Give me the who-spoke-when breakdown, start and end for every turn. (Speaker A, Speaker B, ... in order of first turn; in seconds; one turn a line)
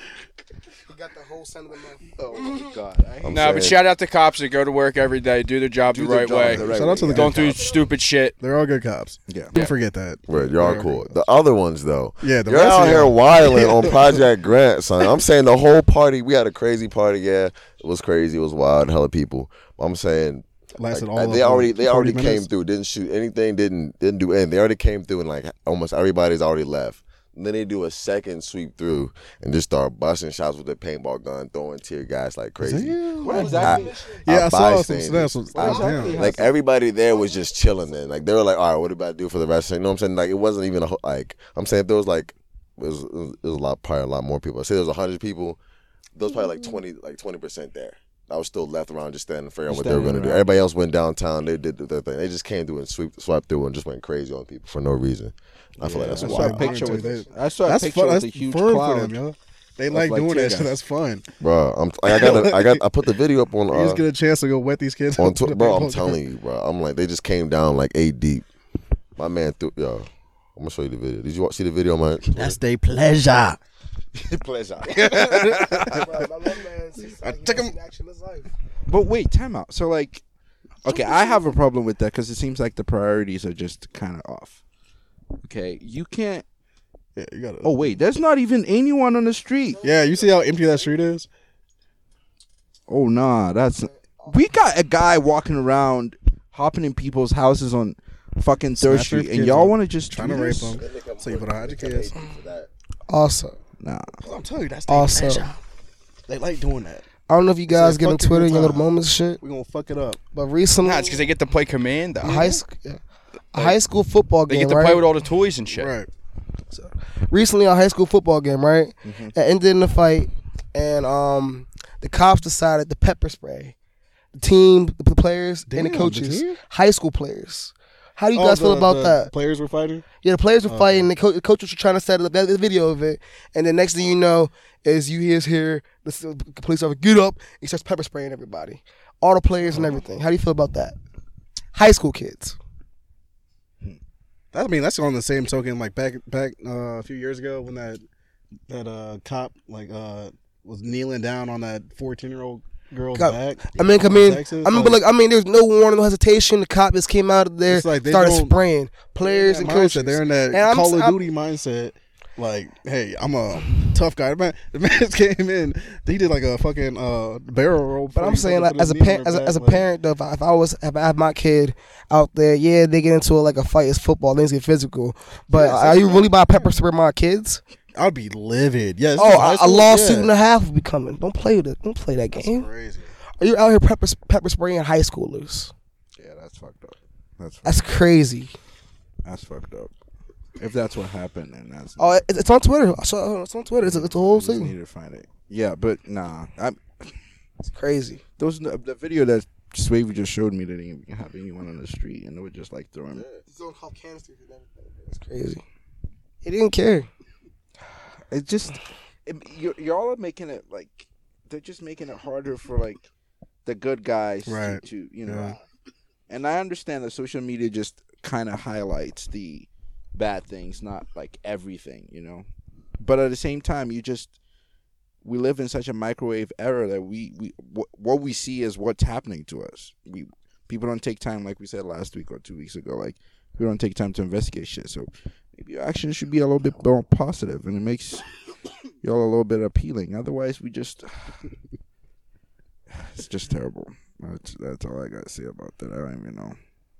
Speaker A: 0.9-2.7
Speaker B: 2.2-3.6
Speaker C: 3.2-3.8
Speaker D: 3.3-8.3
Speaker B: 5.9-7.6
Speaker E: 6.5-7.5
Speaker A: 7.4-7.9
Speaker E: 8.4-11.1
Speaker C: 10.3-33.0
Speaker E: 12.2-14.2
Speaker E: 20.8-22.5
Speaker E: 32.6-36.2
Speaker B: 33.2-33.9
Speaker A: 33.2-34.2
Speaker C: 33.6-35.3
Speaker B: 35.5-36.5
Speaker A: 35.6-36.4
Speaker C: 36.1-45.6
Speaker A: 37.1-37.5
Speaker C: 46.1-56.7
Speaker B: 49.7-50.6
Speaker B: 55.8-59.1
Speaker E: 56.1-61.2
Speaker A: 56.5-57.3
Speaker B: 59.9-60.8
Speaker C: 61.4-64.0
Speaker E: 62.1-62.8
Speaker E: 63.7-66.2
Speaker C: 65.2-68.5
Speaker C: 69.2-72.6
Speaker E: 72.3-73.6
Speaker C: 74.2-75.0
Speaker B: 74.9-76.0
Speaker E: 74.9-76.1
Speaker A: 75.8-78.5
Speaker E: 77.2-77.7
Speaker B: 78.9-80.2
Speaker B: 80.8-84.6
Speaker B: 85.4-86.4
Speaker E: 87.2-87.7
Speaker B: 87.6-89.8
Speaker A: 89.8-90.9
Speaker E: 89.8-91.3
Speaker B: 92.9-100.8
Speaker A: 93.8-94.4
Speaker E: 98.8-102.1
Speaker C: 100.8-102.7
Speaker A: 103.1-103.6
Speaker B: 103.8-104.2
Speaker E: 104.2-105.5
Speaker A: 104.9-105.5
Speaker E: 106.3-107.0
Speaker A: 107.3-109.4
Speaker E: 107.7-108.8
Speaker E: 109.4-110.2
Speaker A: 110.3-111.2
Speaker D: 110.8-112.6
Speaker A: 112.2-113.0
Speaker A: 113.5-115.0
Speaker D: 114.5-115.9
Speaker E: 115.7-116.1
Speaker A: 117.3-123.7
Speaker B: 119.0-119.3
Speaker A: 124.4-129.3
Speaker E: 125.7-126.6
Speaker E: 128.3-130.1
Speaker A: 130.2-140.9
Speaker E: 130.7-131.1
Speaker E: 139.7-140.0
Speaker A: 141.7-142.6
Speaker E: 144.5-148.0
Speaker E: 148.7-155.0
Speaker A: 153.1-161.2
Speaker E: 157.7-158.6
Speaker E: 159.2-169.8
Speaker A: 168.1-177.6
Speaker E: 175.5-176.7
Speaker E: 177.9-180.3
Speaker A: 179.2-182.7
Speaker E: 182.3-183.1
Speaker A: 183.4-185.7
Speaker B: 186.2-187.9
Speaker A: 187.6-188.5
Speaker B: 189.2-189.9
Speaker B: 190.6-192.2
Speaker A: 192.0-194.7
Speaker B: 193.8-197.1
Speaker A: 197.6-198.2
Speaker B: 198.4-203.2
Speaker C: 203.1-203.4
Speaker A: 203.5-205.6
Speaker A: 206.4-207.1
Speaker B: 208.3-213.1
Speaker B: 213.6-215.6
Speaker E: 214.4-215.6
Speaker B: 216.3-222.5
Speaker B: 223.0-224.3
Speaker B: 225.2-238.2
Speaker B: 239.0-241.4
Speaker B: 242.9-246.6